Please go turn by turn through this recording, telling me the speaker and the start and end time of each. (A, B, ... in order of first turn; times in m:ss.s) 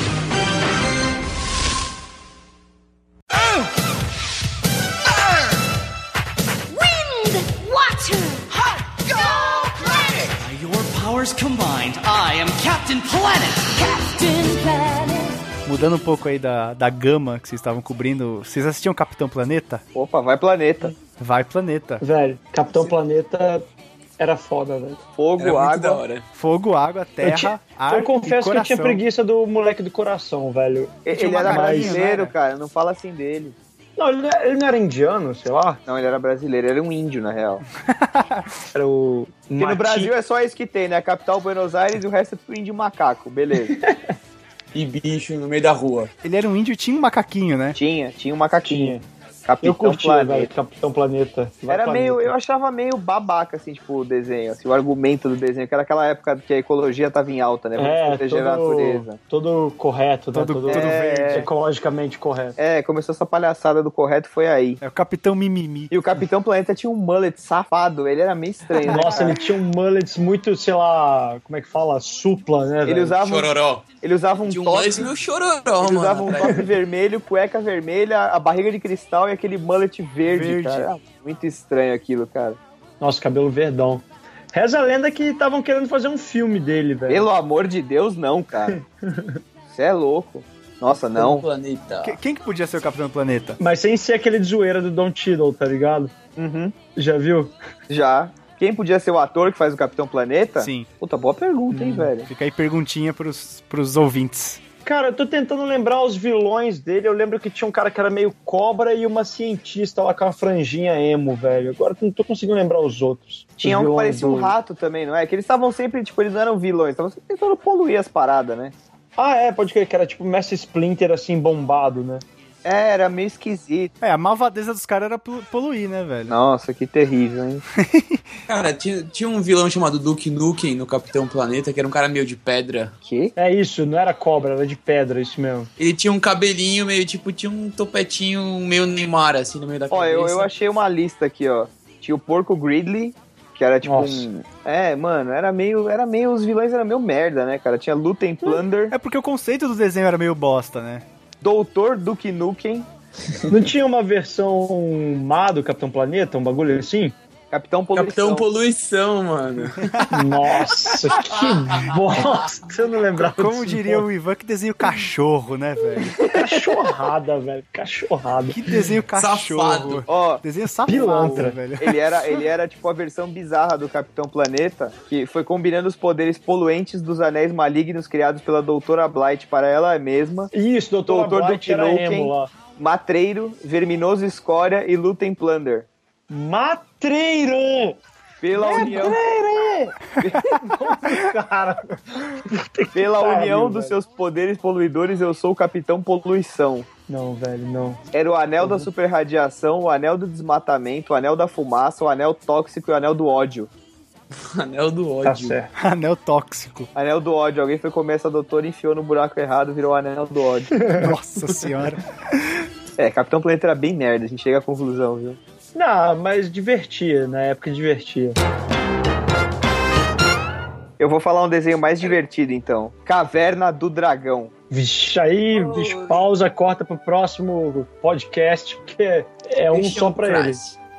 0:06.7-0:10.3 A
0:10.3-0:15.3 B
0:15.7-0:19.8 C
0:19.9-0:21.0 D
0:21.2-0:22.0 C
0:22.0-0:23.6 E
0:24.2-0:25.0 E
0:25.2-0:26.0 D
0:25.4-0:26.2 F
0:26.3-0:29.0 C
0:27.2-0:32.0 E
0:31.0-0:33.6 D
0:31.1-0:32.3 C
0:34.0-0:35.8 E
0:35.9-0:37.6 D
0:37.8-0:38.5 C
0:38.7-0:40.1 E
0:39.6-0:43.7 D
0:43.7-0:44.1 E
0:44.7-0:46.1 F
0:46.2-0:47.8 C
0:47.7-0:50.5 D
0:48.6-0:49.0 E
0:49.6-0:52.3 E
0:51.7-0:59.2 D
0:57.8-1:02.6 E
1:00.3-1:01.5 C
1:00.7-1:01.5 D
1:02.6-1:04.8 D
1:04.8-1:05.9 C
1:05.9-1:09.4 D
1:08.9-1:13.1 E
1:09.0-1:09.2 C
1:12.8-1:15.1 D
1:13.2-1:13.8 F
1:14.5-1:16.7 F
1:15.8-1:22.6 D
1:20.2-1:20.9 C
1:23.0-1:27.3 E
1:27.1-1:28.8 D
1:28.7-1:29.4 E
1:29.7-1:31.4 D
1:31.2-1:32.2 F
1:32.0-1:33.6 C
1:33.6-1:36.1 E
1:36.4-1:36.7 D
1:37.0-1:37.5 E
1:37.9-1:42.3 D
1:40.6-1:40.9 C
1:41.7-1:42.1 E
1:42.3-1:44.6 C
1:44.8-1:54.5 E
1:53.6-1:58.7 D
1:59.2-2:02.2 E
2:02.6-2:03.9 D
2:04.0-2:06.3 C
2:06.3-2:07.6 D
2:07.8-2:08.2 C
2:08.5-2:13.0 F
2:13.0-2:13.3 D
2:13.4-2:15.7 E
2:15.8-2:20.5 F
2:19.9-2:29.0 D
2:23.8-2:24.3 E
2:28.9-2:31.0 C
2:31.4-2:32.9 D
2:33.5-2:37.2 E
2:37.5-2:38.4 D
2:37.9-2:40.0 F
2:39.9-2:40.2 C
2:40.1-2:44.1 E
2:41.8-2:42.4 F
2:43.2-2:46.2 C
2:46.3-2:48.6 E
2:48.5-2:52.0 C
2:49.2-2:50.1 F
2:50.1-2:50.4 D
2:50.9-2:51.6 E
2:51.2-3:00.5 D
3:00.5-3:02.5 E
3:01.1-3:05.9 D
3:06.3-3:08.0 E
3:08.4-3:09.2 D
3:08.6-3:14.0 E
3:10.2-3:10.6 D
3:12.9-3:16.9 D
3:17.1-3:18.0 E
3:18.1-3:23.7 D
3:18.6-3:18.9 E
3:24.3-3:25.6 F
3:25.2-3:25.7 E
3:25.8-3:26.9 C
3:27.0-3:30.8 D
3:30.8-3:31.1 E
3:30.9-3:32.6 C
3:33.0-3:35.4 D
3:35.8-3:38.4 E
3:41.0-3:44.5 D
3:44.7-3:50.6 E
3:45.5-3:46.2 F
3:49.7-3:50.8 F